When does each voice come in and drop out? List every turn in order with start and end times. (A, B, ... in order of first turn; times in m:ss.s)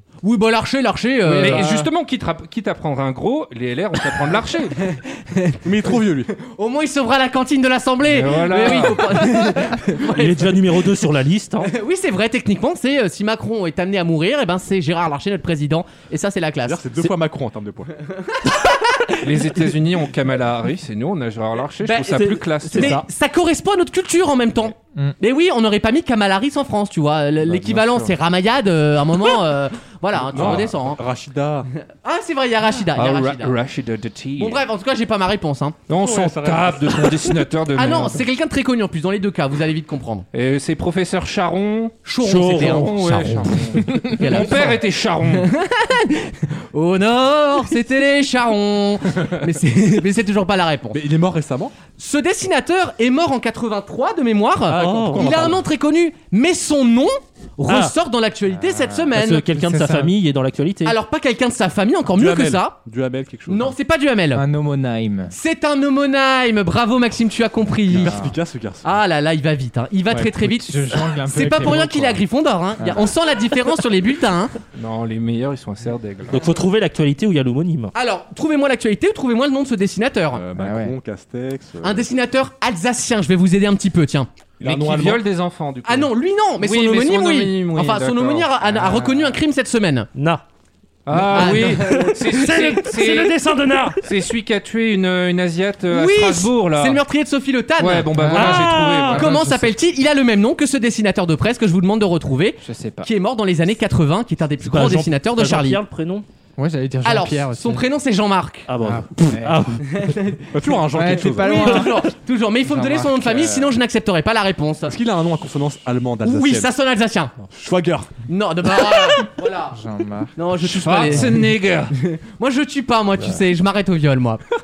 0:00.2-0:01.7 A
0:01.2-0:01.9 B
0:01.4-0:04.8 C
0:05.2-0:05.6 A
0:05.6-0:06.3 D
0:06.4-0:10.8 A
0:08.1-0:09.2 C
0:10.0-0:11.7 E
0:11.6-0:17.1 A
0:16.6-0:17.9 D
0:18.4-0:19.1 A
0:19.2-0:23.0 C
0:21.8-0:31.0 A
0:22.6-0:23.0 E
0:27.4-0:28.1 C
0:30.2-0:31.7 D
0:30.3-0:30.6 C
0:32.0-0:33.5 A
0:32.9-0:34.6 C
0:34.4-0:35.8 A
0:35.9-0:38.2 C
0:35.9-0:37.3 D
0:37.7-0:40.2 A
0:40.3-0:45.5 C
0:42.0-0:43.3 A
0:42.2-0:43.9 E
0:44.0-0:44.8 A
0:45.3-0:51.0 A
0:50.9-0:51.7 D
0:52.0-0:59.4 A
0:54.7-0:55.6 D
0:54.7-0:55.4 E
0:57.7-0:57.9 E
0:58.5-1:00.1 B
0:59.1-1:01.0 E
1:00.8-1:02.8 A
1:02.1-1:03.8 D
1:03.5-1:04.4 A
1:04.3-1:05.3 B
1:05.3-1:08.2 A
1:07.9-1:08.9 D
1:07.9-1:08.4 B
1:08.8-1:14.5 A
1:10.1-1:12.2 B
1:12.8-1:13.1 B
1:14.7-1:16.4 C
1:16.3-1:17.9 E
1:17.9-1:20.4 A
1:20.3-1:22.1 D
1:20.5-1:21.0 B
1:21.8-1:24.3 A
1:24.6-1:25.2 D
1:24.6-1:29.2 C
1:25.8-1:30.1 A
1:30.1-1:30.4 E
1:31.0-1:37.0 C
1:31.1-1:34.1 E
1:31.3-1:32.3 A
1:35.9-1:38.1 A
1:37.8-1:39.3 C
1:38.2-1:39.7 B
1:38.3-1:39.2 E
1:39.1-1:45.8 A
1:42.6-1:43.1 B
1:44.6-1:46.2 E
1:46.6-1:47.8 B
1:47.0-1:48.7 A
1:48.7-1:50.0 E
1:48.8-1:49.8 B
1:49.9-1:50.5 A
1:50.5-1:51.8 D
1:50.9-1:52.0 B
1:51.1-1:54.9 A
1:52.7-1:53.7 B
1:54.9-1:56.7 D
1:56.2-1:57.3 A
1:57.5-1:58.1 D
1:58.3-1:59.8 A
1:59.7-2:00.4 B
2:00.4-2:04.4 A
2:00.6-2:01.9 C